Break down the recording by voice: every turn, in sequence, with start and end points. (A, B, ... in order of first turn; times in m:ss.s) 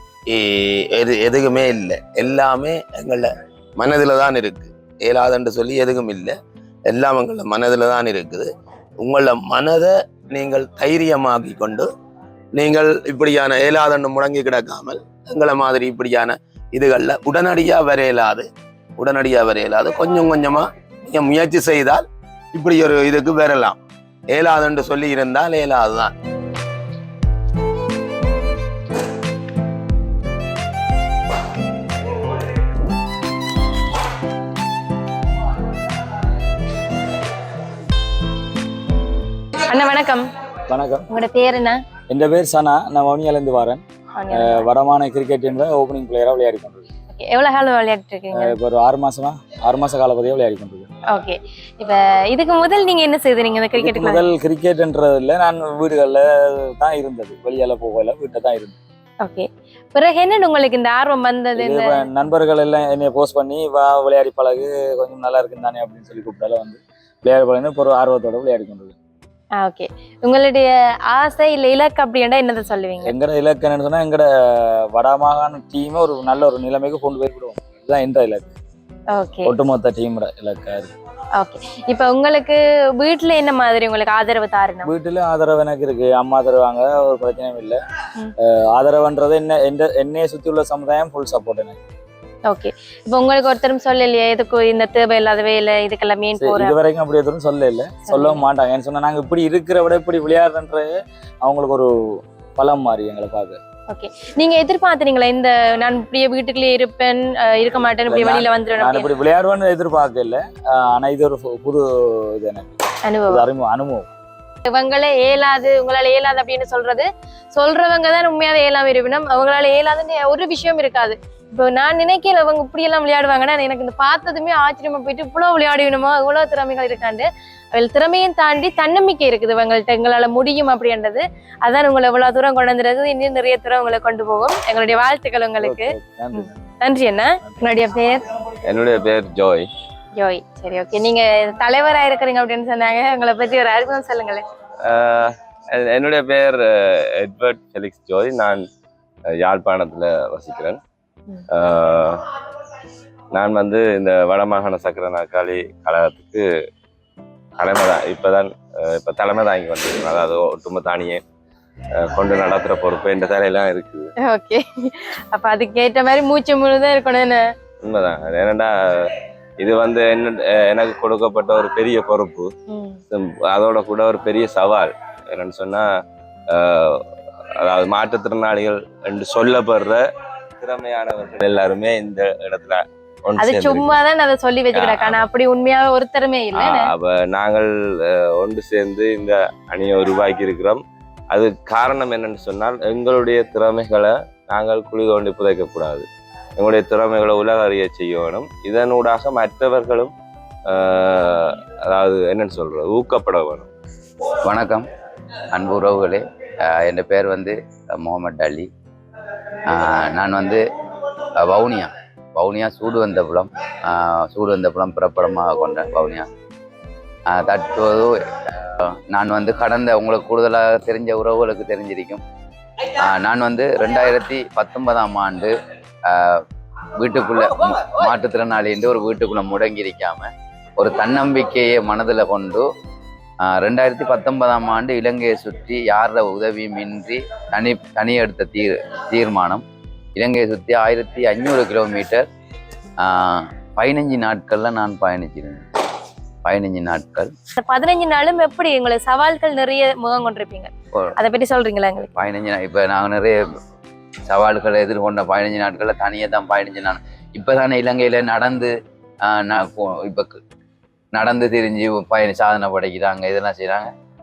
0:00.3-0:06.4 A
0:06.9-0:08.5 A
0:09.0-0:11.9 A
0:12.6-0:23.8 A
0:24.3-0:26.1 A
0:39.6-0:40.3 B
0:40.7-0:41.1 C
0:41.1-0:41.8 B
0:42.1-0:46.9 C
0:44.2-0:44.7 B
0:47.1-0:48.6 B
0:48.3-0:50.9 C
0:51.1-0:54.2 B
0:53.8-0:58.8 C
0:59.2-1:02.1 B
1:01.6-1:09.0 C
1:09.6-1:13.1 B
1:13.0-1:18.5 C
1:19.1-1:19.5 B
1:19.4-1:20.9 C
1:21.4-1:24.9 B
1:24.8-1:27.8 C
1:28.4-1:31.8 C
1:32.5-1:36.8 B
1:36.4-1:43.6 C
1:38.1-1:38.4 B
1:43.9-1:49.1 B
1:48.1-1:54.1 C
1:53.1-1:53.4 B
1:54.7-2:18.3 B
2:15.6-2:16.6 C
2:18.6-2:19.7 D
2:20.1-2:24.4 B
2:24.8-2:28.6 D
2:29.3-2:30.8 D
2:31.5-2:32.2 D
2:33.3-2:36.5 D
2:37.6-2:41.2 D
2:42.0-2:44.1 D
2:44.2-2:47.4 B
2:47.8-2:52.5 D
2:52.7-2:53.0 B
2:53.1-2:55.9 D
2:56.5-3:00.0 D
3:00.6-3:04.0 D
3:03.4-3:06.9 B
3:06.6-3:16.1 D
3:16.6-3:20.1 D
3:20.7-3:23.7 D
3:24.4-3:24.9 E
3:25.5-3:28.7 E
3:29.6-3:30.6 E
3:31.3-3:36.3 E
3:37.3-3:42.2 E
3:43.0-3:45.5 E
3:46.1-3:52.6 E
3:53.4-3:59.6 E
4:00.2-4:02.3 E
4:03.0-4:05.7 E
4:06.4-4:07.3 E
4:07.6-4:12.1 B
4:12.2-4:13.4 E
4:14.3-4:20.4 E
4:21.1-4:23.9 E